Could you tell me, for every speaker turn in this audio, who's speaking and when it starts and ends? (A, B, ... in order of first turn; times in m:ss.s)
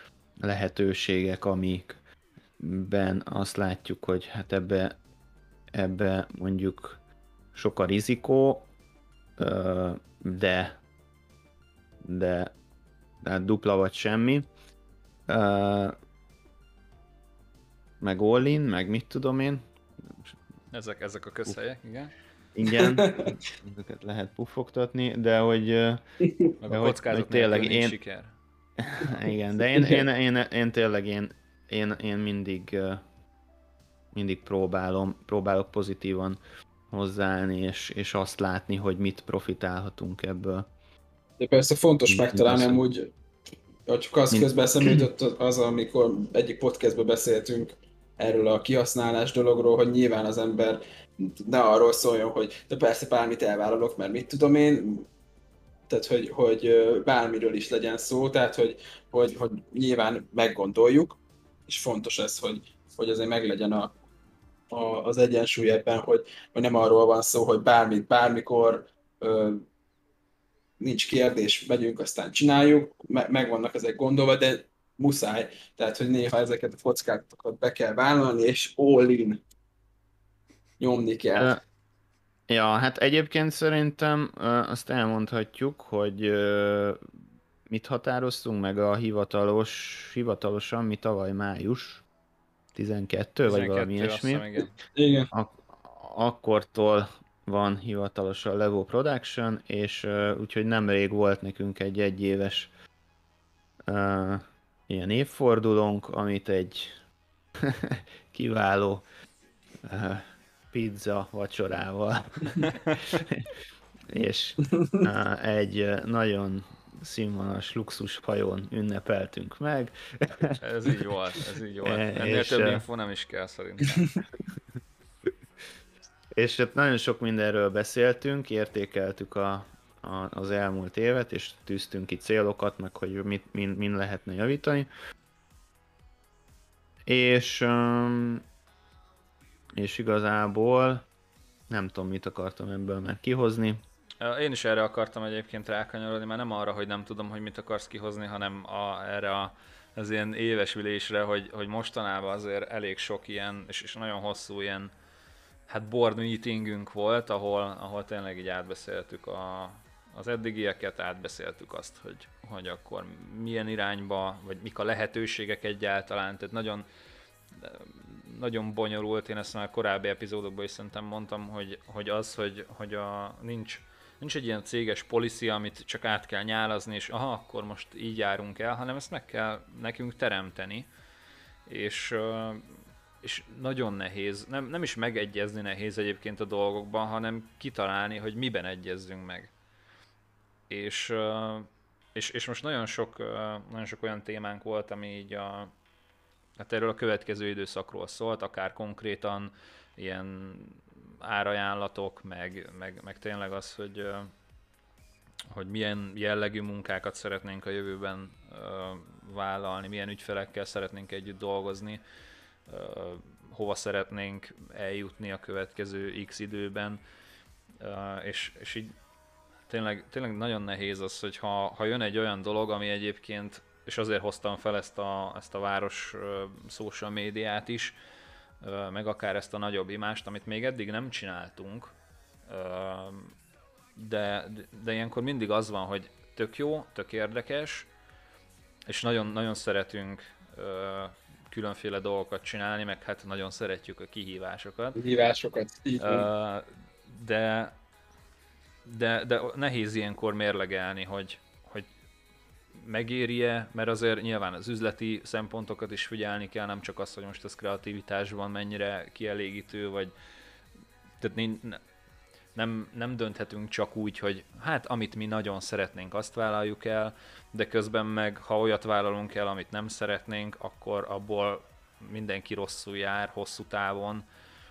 0:00.4-0:02.0 A
0:02.6-0:05.0 A
0:05.7-0:07.0 A
0:07.5-0:08.7 A
0:09.4-0:10.8 A
0:12.0-0:12.6 A
0:13.2-0:14.5 A
0:15.3-0:16.0 A
0:18.0-0:20.4 A
0:20.7-0:22.1 B
0:22.6-0:26.0 A
0:22.6-0:23.4 C
0:26.6-0:28.4 B
0:26.6-0:28.0 A
0:28.8-0:33.0 A
0:29.7-0:30.0 C
0:34.1-0:36.4 A
0:36.9-0:40.7 A
0:41.4-0:43.1 C
0:42.1-0:42.8 A
0:43.9-0:55.1 C
0:44.3-0:45.1 A
0:55.9-1:03.9 C
1:04.7-1:09.6 C
1:10.8-1:19.4 C
1:20.8-1:21.6 C
1:21.4-1:21.6 A
1:22.5-1:27.0 A
1:27.7-1:32.0 A
1:32.7-1:34.5 A
1:33.4-1:34.8 B
1:34.9-1:35.3 C
1:35.3-1:42.7 A
1:43.9-1:47.0 A
1:47.6-1:49.0 A
1:49.8-1:53.5 A
1:54.1-2:00.6 A
1:54.7-1:55.0 C
2:00.6-2:04.1 B
2:01.8-2:02.8 A
2:06.4-2:14.9 A
2:17.1-2:18.4 A
2:19.8-2:21.0 A
2:21.7-2:23.8 A
2:24.2-2:34.9 B
2:35.7-2:46.9 B
2:47.5-3:00.9 B
3:01.7-3:09.5 B
3:10.7-3:15.7 B
3:16.6-3:24.3 B
3:25.5-3:32.0 B
3:32.7-3:37.0 B
3:37.8-3:38.9 B
3:39.7-3:48.0 B
3:48.6-3:52.0 B
3:52.5-3:53.4 B
3:54.0-3:57.9 B
3:58.9-4:05.0 B
4:05.0-4:06.3 C
4:06.0-4:07.7 B
4:08.9-4:11.9 B
4:12.7-4:20.1 B
4:21.2-4:21.8 B
4:22.6-4:34.2 B